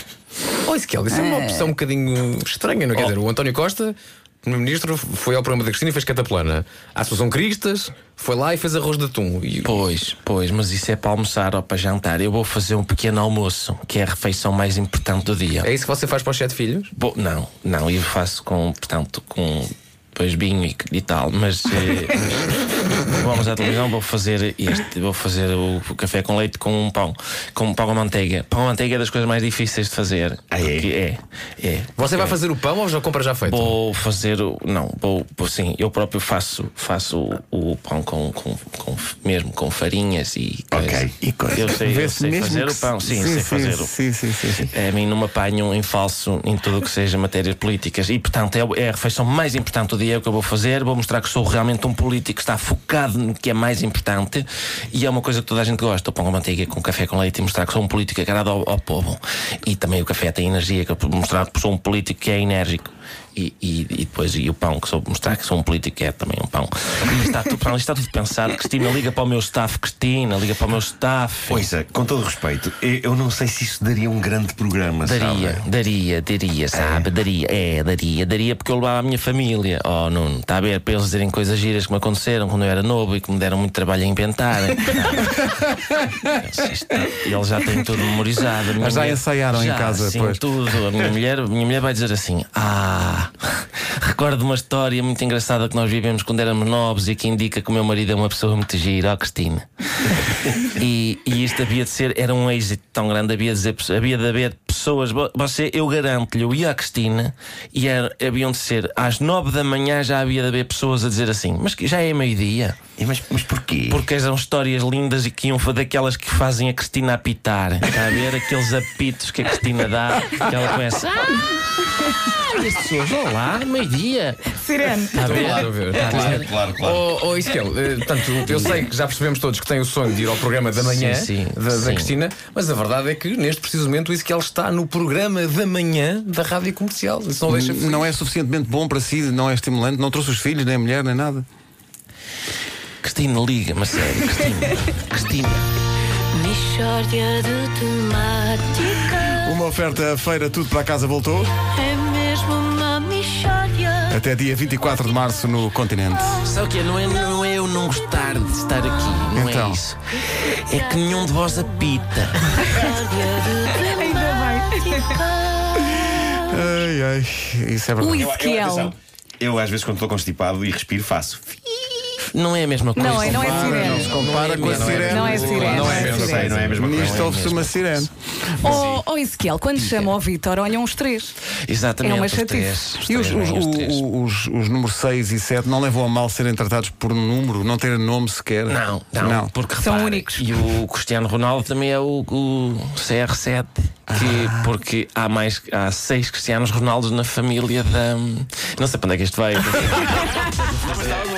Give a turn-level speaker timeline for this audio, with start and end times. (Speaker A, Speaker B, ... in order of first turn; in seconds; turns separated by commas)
Speaker A: 0.6-9.7, Speaker B: 1.1-1.7, Speaker C: 9.6-15.7, Speaker A: 15.6-16.9, Speaker C: 16.9-32.4, Speaker D: 30.5-30.9, Speaker A: 32.0-33.8, Speaker C: 33.5-44.0, Speaker D: 40.7-41.2, Speaker E: 41.2-44.7, Speaker C: 44.7-71.7, Speaker D: 71.5-75.7, Speaker C: 75.0-112.8, Speaker D: 76.7-77.1, Speaker E: 88.8-90.5, Speaker D: 113.0-114.0, Speaker C: 113.9-121.6, Speaker C: 122.5-126.5, Speaker B: 124.6-125.6, Speaker A: 125.2-138.1, Speaker D: 126.0-127.2, Speaker C: 128.4-128.8, Speaker C: 130.8-132.1, Speaker E: 137.5-141.5, Speaker C: 143.0-145.7, Speaker F: 146.3-149.6, Speaker E: 149.4-151.5, Speaker F: 151.7-154.2, Speaker E: 154.1-156.4, Speaker C: 156.4-162.7, Speaker E: 159.3-159.8, Speaker F: 160.7-161.1, Speaker F: 162.5-166.7, Speaker B: 163.8-165.2, Speaker E: 166.1-168.3, Speaker B: 168.0-168.9, Speaker D: 168.2-171.9, Speaker C: 172.3-178.1, Speaker B: 173.0-174.1, Speaker E: 173.0-178.8, Speaker D: 174.1-177.4, Speaker A: 174.5-175.7, Speaker B: 175.0-176.6, Speaker C: 178.6-179.0, Speaker B: 178.6-181.3, Speaker C: 179.8-180.2, Speaker C: 181.7-184.0, Speaker B: 182.0-182.9, Speaker E: 183.1-189.5, Speaker C: 188.7-200.4, Speaker B: 189.8-190.5, Speaker E: 194.1-194.7